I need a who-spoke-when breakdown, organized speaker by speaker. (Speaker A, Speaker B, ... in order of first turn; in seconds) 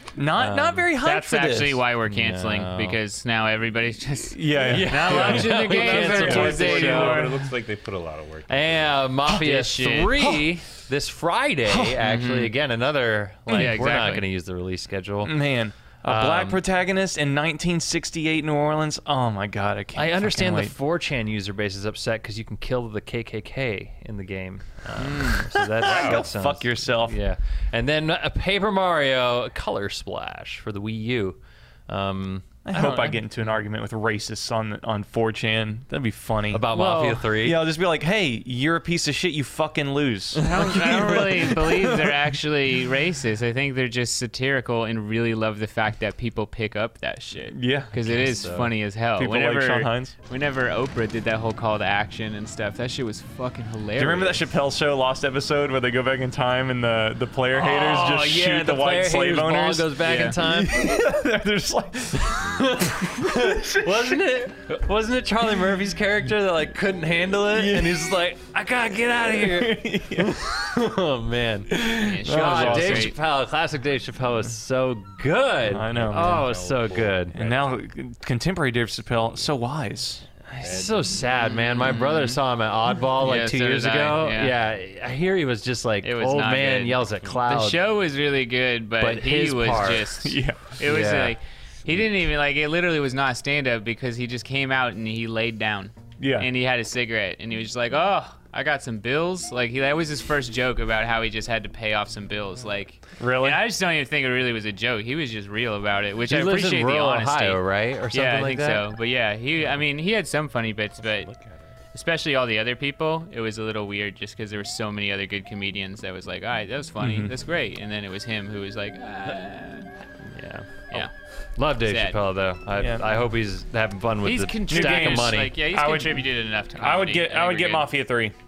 Speaker A: 0.2-1.8, 4.3-6.5, 11.7-12.0, 13.5-13.8, 15.2-20.7, 25.0-27.2, 32.6-36.8, 37.3-42.2, 47.5-47.9, 49.2-50.1, 54.0-64.5, 67.5-68.1, 69.0-70.6, 71.7-73.1, 75.7-76.5, 77.3-80.2, 90.2-90.7, 96.2-96.5, 103.2-103.6, 117.0-117.3, 122.8-123.0, 124.7-128.3
Speaker B: 0.4-0.9, 2.1-3.0, 4.6-7.3, 8.5-15.3, 16.0-16.6, 19.9-33.2, 36.5-37.7, 48.0-48.7, 57.5-61.0, 62.4-77.4, 80.5-87.8, 89.0-90.1, 90.8-91.3, 106.3-108.9, 120.2-125.5
Speaker C: 1.0-7.5, 9.3-10.2, 12.0-12.5, 13.5-14.2, 36.7-37.3, 40.4-54.4, 60.1-60.3, 72.0-73.2, 81.5-82.4, 83.2-84.5, 86.0-111.3, 111.9-119.9, 121.8-122.2, 124.2-127.9
Speaker D: 5.5-9.0, 25.8-26.2, 75.9-77.6, 80.6-81.0, 111.0-111.7